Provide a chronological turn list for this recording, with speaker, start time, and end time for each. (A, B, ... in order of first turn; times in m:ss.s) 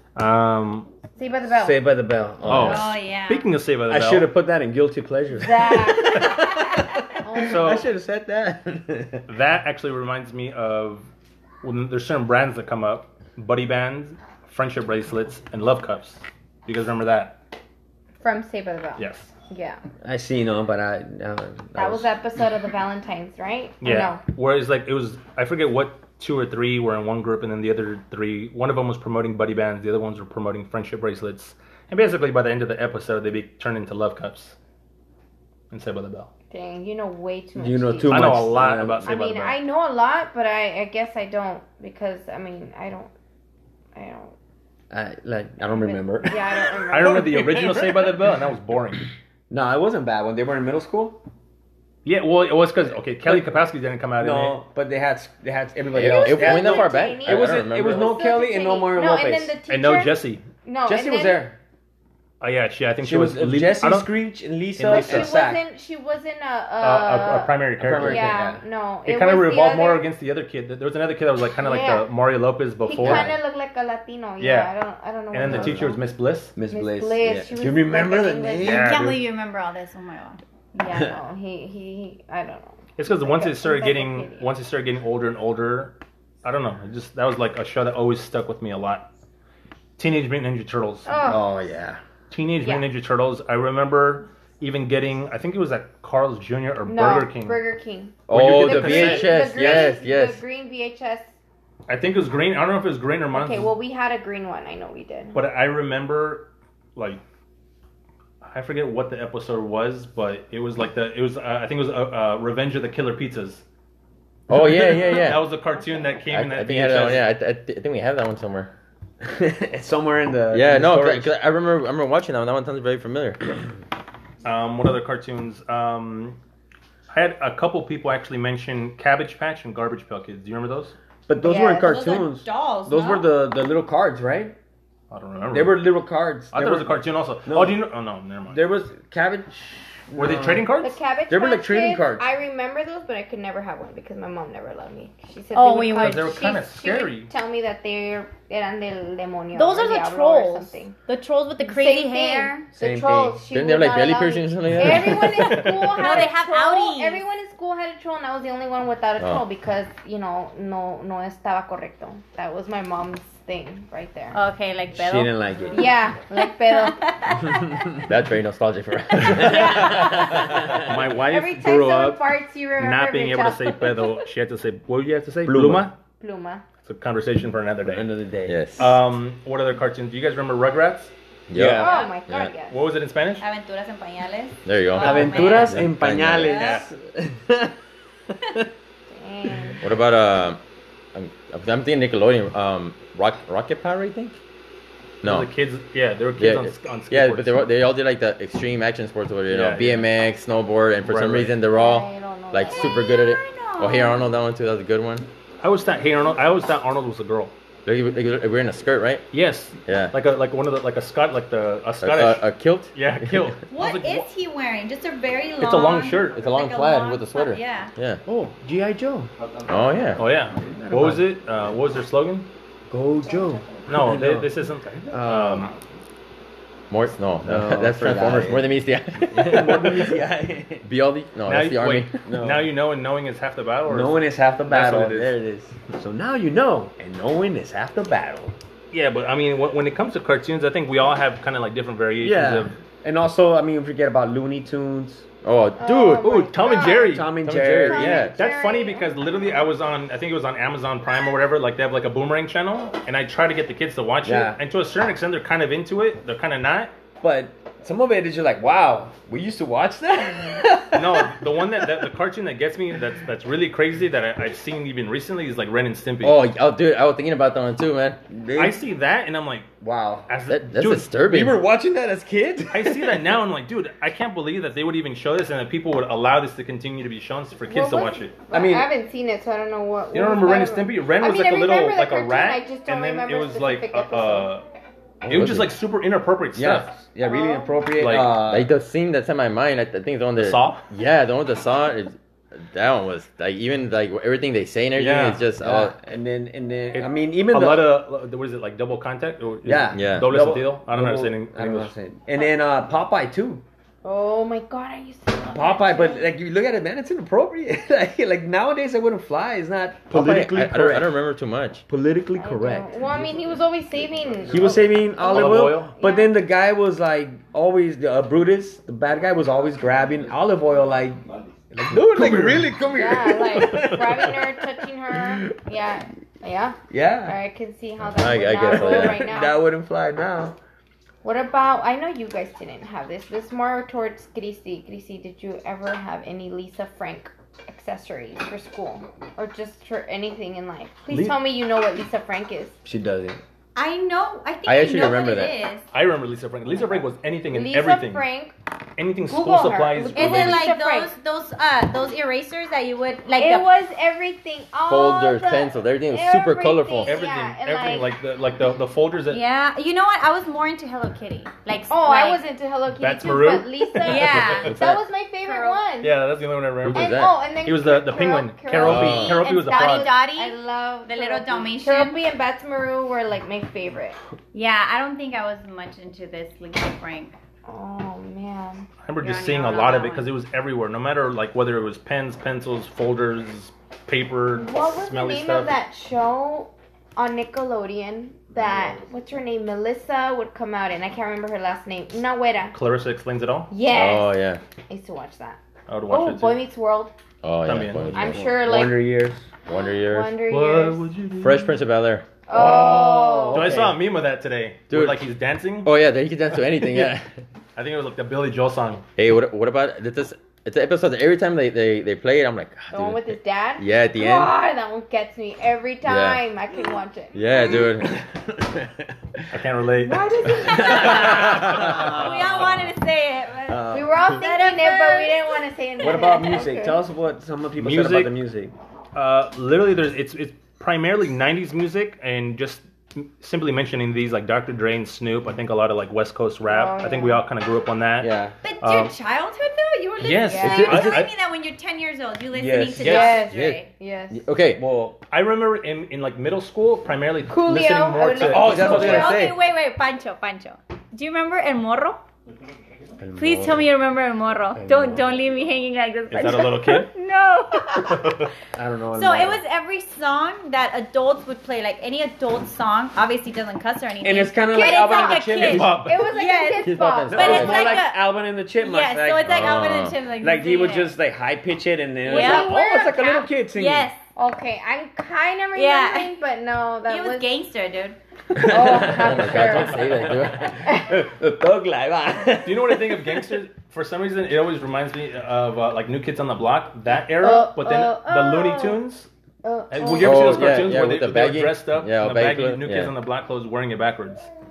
0:00.2-0:00.9 A
0:01.2-0:01.9 B
0:01.5-0:02.9 C
0:02.5-0:04.3 A
0:02.5-0:03.5 D
0:03.9-0:09.2 C
0:05.4-0:06.4 B
0:07.2-0:07.8 B
0:07.5-0:07.9 A
0:09.3-0:11.0 A
0:11.6-0:17.4 A
0:18.2-0:19.8 B
0:19.0-0:19.3 A
0:20.0-0:22.1 C
0:21.8-0:24.2 B
0:23.8-0:34.6 A
0:35.7-0:36.3 A
0:36.5-0:43.1 B
0:37.6-0:39.1 C
0:38.1-0:39.6 A
0:43.9-0:44.3 B
0:44.9-0:46.4 C
0:45.8-0:47.4 B
0:46.9-0:49.1 A
0:46.9-0:48.1 C
0:49.5-0:51.2 C
0:52.0-0:54.6 A
0:54.2-0:59.6 C
0:55.9-1:01.5 B
0:55.9-0:58.1 E
0:59.7-1:00.4 A
1:00.8-1:01.6 C
1:02.4-1:04.1 A
1:03.0-1:05.6 C
1:04.8-1:05.3 A
1:04.8-1:10.0 B
1:06.8-1:08.4 A
1:07.8-1:08.6 C
1:09.0-1:13.3 A
1:11.6-1:12.1 B
1:12.8-1:16.0 B
1:13.0-1:13.4 C
1:14.4-1:14.7 A
1:15.3-1:16.5 A
1:15.4-1:16.0 C
1:16.5-1:19.2 C
1:16.7-1:18.8 B
1:18.6-1:19.2 A
1:18.6-1:21.1 D
1:20.8-1:24.5 B
1:23.0-1:29.1 A
1:30.0-1:31.1 A
1:31.0-1:31.5 B
1:31.2-1:32.0 C
1:32.3-1:37.6 A
1:36.9-1:41.3 B
1:38.3-1:40.4 E
1:38.3-1:39.3 A
1:41.9-1:43.7 A
1:43.3-1:45.4 B
1:45.3-1:47.2 A
1:48.4-1:53.6 A
1:54.5-1:55.5 E
1:54.5-1:57.3 A
1:56.3-1:58.7 E
1:59.2-2:01.3 C
2:00.5-2:03.4 E
2:04.4-2:06.4 A
2:07.1-2:11.0 A
2:11.3-2:14.6 C
2:11.4-2:12.0 B
2:11.8-2:13.3 D
2:15.1-2:15.9 A
2:15.5-2:17.8 C
2:16.5-2:18.6 A
2:18.5-2:20.7 C
2:20.2-2:21.0 A
2:20.8-2:31.0 B
2:21.3-2:22.3 C
2:25.5-2:26.4 D
2:26.0-2:27.3 A
2:29.5-2:32.7 D
2:31.6-2:44.4 B
2:32.7-2:33.4 C
2:33.5-2:35.8 E
2:35.9-2:37.2 D
2:44.3-2:48.0 D
2:44.9-2:45.8 C
2:45.7-2:47.0 B
2:47.5-2:47.8 C
2:48.0-2:50.8 E
2:49.4-2:50.2 B
2:49.5-2:50.8 C
2:50.8-2:52.2 A
2:51.3-2:53.8 B
2:52.8-2:56.0 A
2:55.4-2:55.9 C
2:56.2-2:56.6 B
2:56.8-2:58.1 A
2:57.8-2:58.6 C
2:58.5-2:59.0 E
2:58.8-3:01.1 A
3:01.5-3:02.5 E
3:01.5-3:01.9 C
3:01.7-3:02.8 B
3:01.8-3:02.2 D
3:02.7-3:03.4 A
3:03.4-3:05.9 D
3:04.6-3:06.7 E
3:05.0-3:07.8 C
3:06.5-3:06.8 A
3:06.5-3:06.8 D
3:09.1-3:09.8 B
3:09.8-3:10.6 E
3:11.1-3:14.4 E
3:15.2-3:15.5 E
3:15.2-3:17.7 A
3:16.4-3:25.3 E
3:19.5-3:20.1 A
3:21.0-3:21.5 A
3:21.7-3:23.0 B
3:22.7-3:24.3 D
3:25.6-3:27.5 A
3:27.8-3:29.2 E
3:29.3-3:34.3 A
3:29.9-3:30.1 E
3:32.0-3:33.5 E
3:33.7-3:37.9 D
3:35.6-3:36.4 A
3:36.3-3:38.2 E
3:38.2-3:39.3 C
3:39.7-3:40.2 E
3:40.2-3:42.5 A
3:40.8-3:41.2 C
3:42.9-3:44.5 C
3:43.9-3:45.7 A
3:45.1-3:45.7 C
3:46.9-3:50.1 E
3:47.4-3:48.8 C
3:49.3-3:50.8 C
3:50.8-3:52.1 E
3:51.5-3:55.3 A
3:52.2-3:52.7 C
3:53.9-3:58.5 C
3:58.9-4:02.8 A
4:02.2-4:05.2 C
4:05.4-4:06.4 E
4:05.8-4:07.2 B
4:06.2-4:07.4 A
4:06.8-4:08.3 C
4:07.4-4:08.3 E
4:07.9-4:09.1 B
4:08.0-4:16.9 A
4:14.2-4:14.6 C
4:17.2-4:22.1 C
4:20.9-4:26.4 A
4:26.2-4:28.2 E
4:28.3-4:28.8 C
4:28.6-4:29.7 A
4:29.8-4:30.3 C
4:30.3-4:31.1 A
4:30.5-4:31.6 E
4:31.2-4:33.3 C
4:32.7-4:38.8 A
4:37.7-4:44.5 B
4:40.1-4:44.6 A
4:45.2-4:45.7 E
4:45.3-4:46.9 A
4:46.6-4:48.7 C
4:47.2-4:47.8 B
4:48.0-4:48.4 A
4:48.4-4:55.9 E
4:50.4-4:50.9 A
4:55.0-4:55.4 A
4:55.0-4:58.0 C
4:56.9-5:01.9 A
4:59.6-5:03.6 C
4:59.9-5:00.3 E
5:04.0-5:06.3 B
5:05.4-5:11.1 C
5:10.1-5:11.8 E
5:11.9-5:13.0 C
5:12.4-5:16.3 B
5:14.5-5:21.2 C
5:15.2-5:15.9 A
5:21.7-5:25.5 C
5:21.8-5:22.8 A
5:23.0-5:29.6 B
5:26.9-5:27.4 C
5:28.0-5:29.3 E
5:28.6-5:30.6 C
5:31.2-5:42.8 B
5:41.1-5:41.4 A
5:42.8-5:43.4 C
5:43.8-5:45.8 D
5:44.6-5:45.6 E
5:45.9-5:48.2 A
5:47.5-5:48.5 B
5:49.0-5:50.7 A
5:49.3-5:51.1 B
5:50.1-5:53.7 D
5:53.4-5:58.1 B
5:54.8-5:57.2 E
5:57.0-5:59.4 A
5:59.3-6:02.4 D
6:01.9-6:06.2 B
6:03.0-6:04.8 A
6:04.0-6:04.8 D
6:04.7-6:05.0 E
6:05.4-6:05.8 D
6:06.0-6:10.1 A
6:06.8-6:07.3 E
6:06.9-6:14.2 B
6:08.8-6:09.4 E
6:09.1-6:12.2 D
6:14.5-6:17.3 D
6:17.6-6:18.8 B
6:19.0-6:25.7 A
6:19.2-6:20.3 D
6:24.6-6:32.8 B
6:32.7-6:33.7 A
6:33.7-6:34.3 B
6:33.9-6:34.6 E
6:34.9-6:37.1 B
6:35.9-6:36.6 A
6:37.4-6:38.5 E
6:37.6-6:38.1 A
6:38.1-6:39.5 C
6:38.1-6:39.0 B
6:39.6-6:40.3 E
6:39.7-6:41.1 B
6:40.5-6:41.8 A
6:41.4-6:42.2 E
6:42.5-6:43.8 B
6:42.5-6:44.0 C
6:42.5-6:45.9 A
6:44.9-6:45.2 E
6:45.8-6:47.2 E
6:47.8-6:49.0 A
6:49.2-6:54.5 E
6:52.9-6:57.9 B
6:56.0-6:56.4 E
6:57.3-6:58.2 E
6:58.0-6:59.5 C
6:59.5-7:00.3 A
7:00.1-7:01.1 B
7:00.4-7:02.2 C
7:00.5-7:06.1 D
7:01.1-7:02.2 E
7:03.7-7:04.2 C
7:03.9-7:07.0 B
7:06.0-7:08.7 C
7:07.8-7:08.3 A
7:09.1-7:19.1 A
7:16.6-7:17.4 B
7:18.2-7:18.5 E
7:18.6-7:23.9 D
7:20.2-7:21.3 A
7:20.5-7:20.9 B
7:20.7-7:21.2 E
7:22.5-7:23.2 C
7:23.0-7:23.4 A
7:23.0-7:24.4 B
7:23.5-7:24.8 E
7:24.8-7:25.2 C
7:25.3-7:29.3 A
7:27.5-7:29.3 B
7:28.4-7:29.6 E
7:28.7-7:32.2 D
7:33.2-7:33.9 C
7:33.3-7:38.5 D
7:34.8-7:35.3 C
7:36.3-7:37.1 A
7:38.1-7:38.5 A
7:38.8-7:39.6 C
7:39.1-7:51.1 D
7:44.2-7:45.9 C
7:44.7-7:47.8 B
7:45.6-7:46.3 A
7:46.8-7:48.0 E
7:47.3-7:49.8 C
7:49.4-7:50.2 E
7:50.4-7:54.1 C
7:52.2-7:53.4 B
7:52.2-7:54.2 D
7:54.3-7:57.5 B
7:55.8-7:56.3 D
7:57.1-7:58.2 D
7:58.5-8:03.5 C
7:58.6-8:00.2 B
7:58.8-8:00.8 E
8:00.8-8:01.2 B
8:02.6-8:09.3 A
8:07.4-8:09.0 B
8:09.6-8:10.7 B
8:09.9-8:14.5 A
8:10.1-8:13.1 E